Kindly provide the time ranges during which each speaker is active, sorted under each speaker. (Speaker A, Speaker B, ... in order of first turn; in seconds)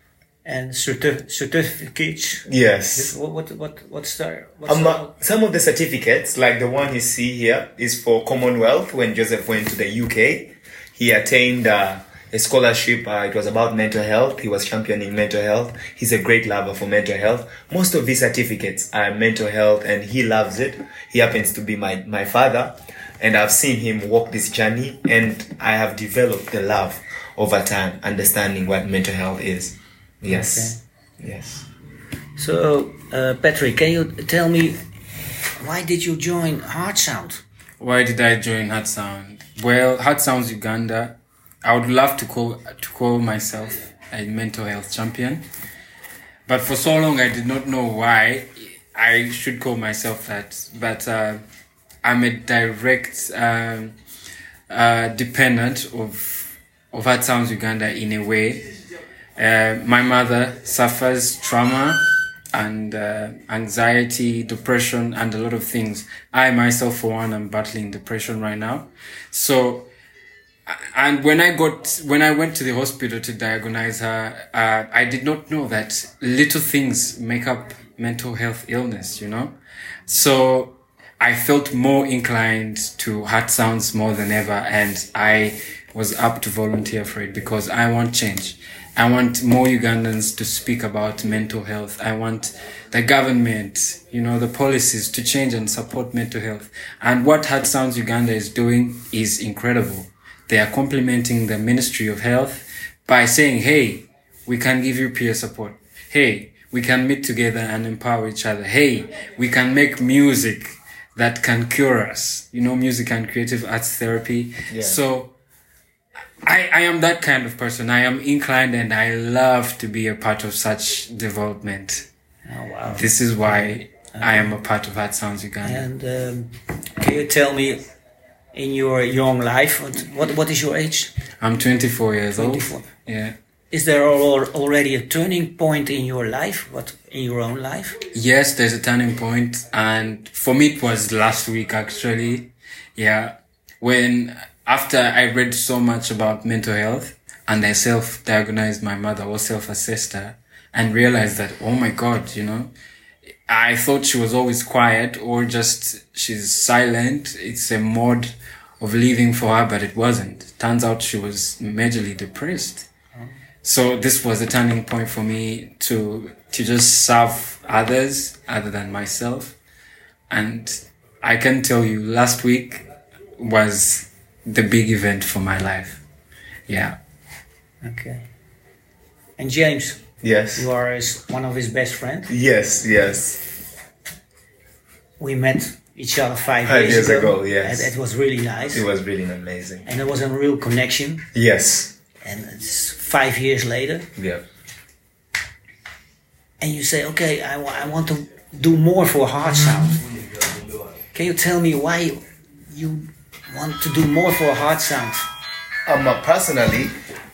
Speaker A: 0.4-5.1, 30.3-30.8, 32.4-34.8, 35.6-37.4, 122.5-124.5, 125.6-127.8, 128.5-131.1, 132.3-132.9, 133.7-138.0, 177.8-178.3, 179.4-180.0, 180.6-182.3, 185.2-188.8, 189.8-191.3, 192.2-194.1, 196.6-200.0, 201.1-205.3
Speaker B: 2.5-3.1, 4.7-31.6, 114.7-115.0, 180.2-180.7, 182.3-183.5, 186.6-187.9, 188.7-189.8, 191.3-191.9, 194.2-194.4, 205.8-207.0
Speaker C: 37.8-45.4, 46.5-51.4, 52.0-54.0, 54.7-58.7, 59.4-69.9, 70.7-79.5, 80.1-115.3, 116.4-122.1, 122.9-125.9, 131.4-133.3, 138.1-152.7, 153.5-162.9, 163.6-169.6, 170.3-172.8, 173.4-176.0, 176.7-177.0